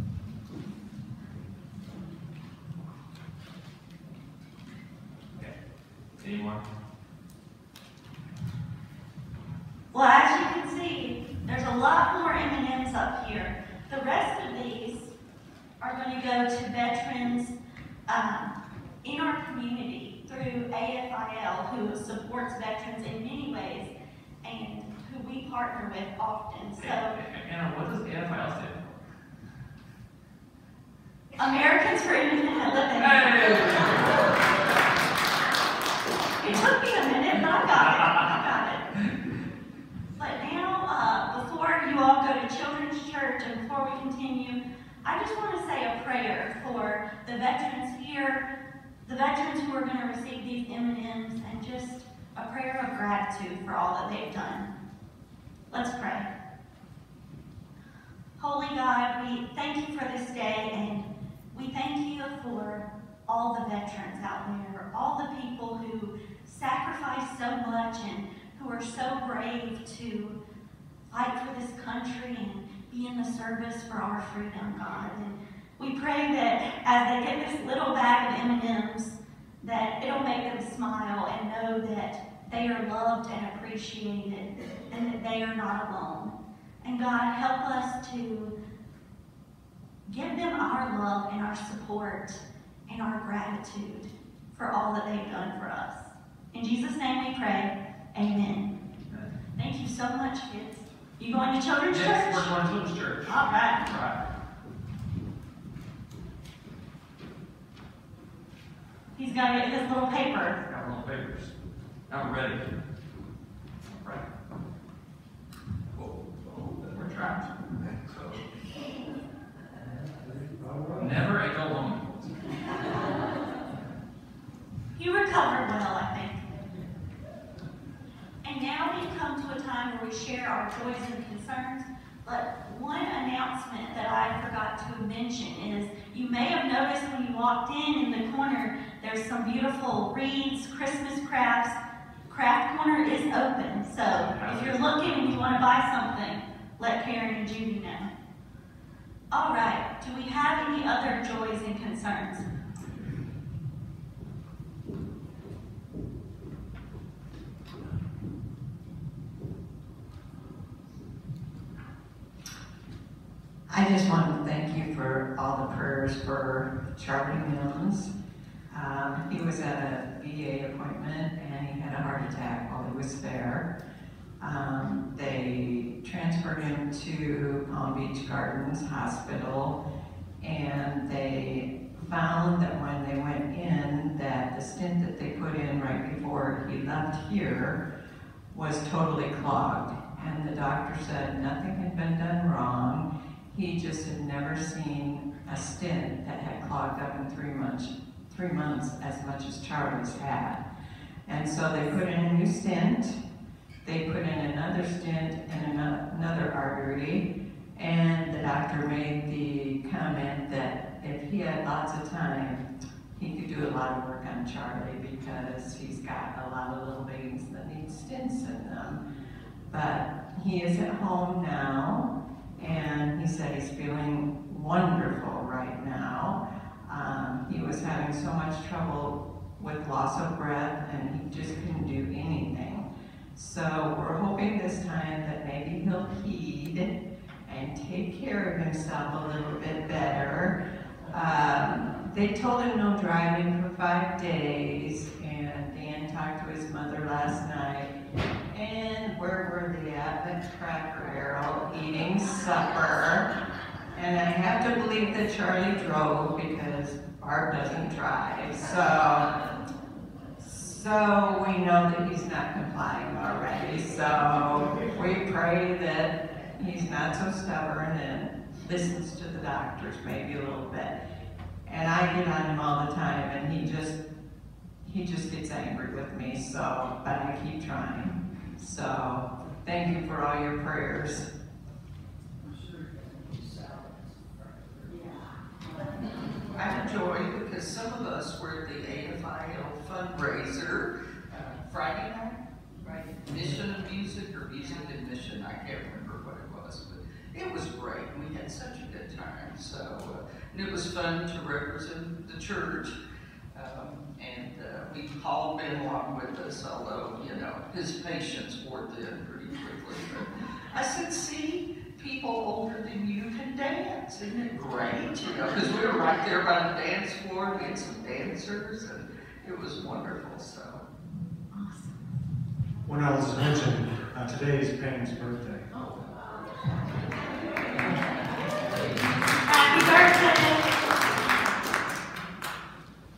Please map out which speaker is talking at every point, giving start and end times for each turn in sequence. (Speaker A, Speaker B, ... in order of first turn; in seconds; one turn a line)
Speaker A: 6.2-6.6
Speaker B: 9.9-15.1
Speaker B: 15.8-17.5
Speaker B: 18.1-23.9
Speaker B: 24.4-27.2
Speaker A: 26.8-29.1
Speaker B: 31.4-33.6
Speaker A: 33.0-34.2
Speaker B: 36.4-38.8
Speaker A: 37.7-38.3
Speaker B: 40.2-48.4
Speaker B: 49.0-54.7
Speaker B: 55.7-56.3
Speaker B: 58.4-70.4
Speaker B: 71.1-88.5
Speaker B: 90.0-98.7
Speaker B: 99.6-102.5
Speaker A: 101.9-104.2
Speaker B: 103.3-103.8
Speaker B: 109.2-110.6
Speaker A: 110.7-111.5
Speaker A: 112.1-112.6
Speaker A: 113.9-114.3
Speaker A: 115.9-118.4
Speaker A: 121.0-122.7
Speaker B: 124.9-126.4
Speaker B: 128.4-141.8
Speaker B: 142.3-148.1
Speaker A: 144.2-145.1
Speaker B: 149.3-152.5
Speaker C: 163.7-168.1
Speaker C: 168.7-173.7
Speaker C: 174.4-179.8
Speaker C: 180.4-187.8
Speaker C: 188.5-200.6
Speaker C: 201.2-203.2
Speaker C: 203.8-219.0
Speaker C: 219.7-236.9
Speaker C: 237.4-240.5
Speaker C: 241.1-247.9
Speaker C: 248.5-253.3
Speaker C: 253.9-259.3
Speaker C: 260.4-270.9
Speaker C: 271.6-274.0
Speaker C: 274.8-281.3
Speaker D: 286.5-302.9
Speaker D: 303.5-320.8
Speaker B: 321.5-322.0
Speaker E: 322.9-325.6
Speaker B: 329.4-330.7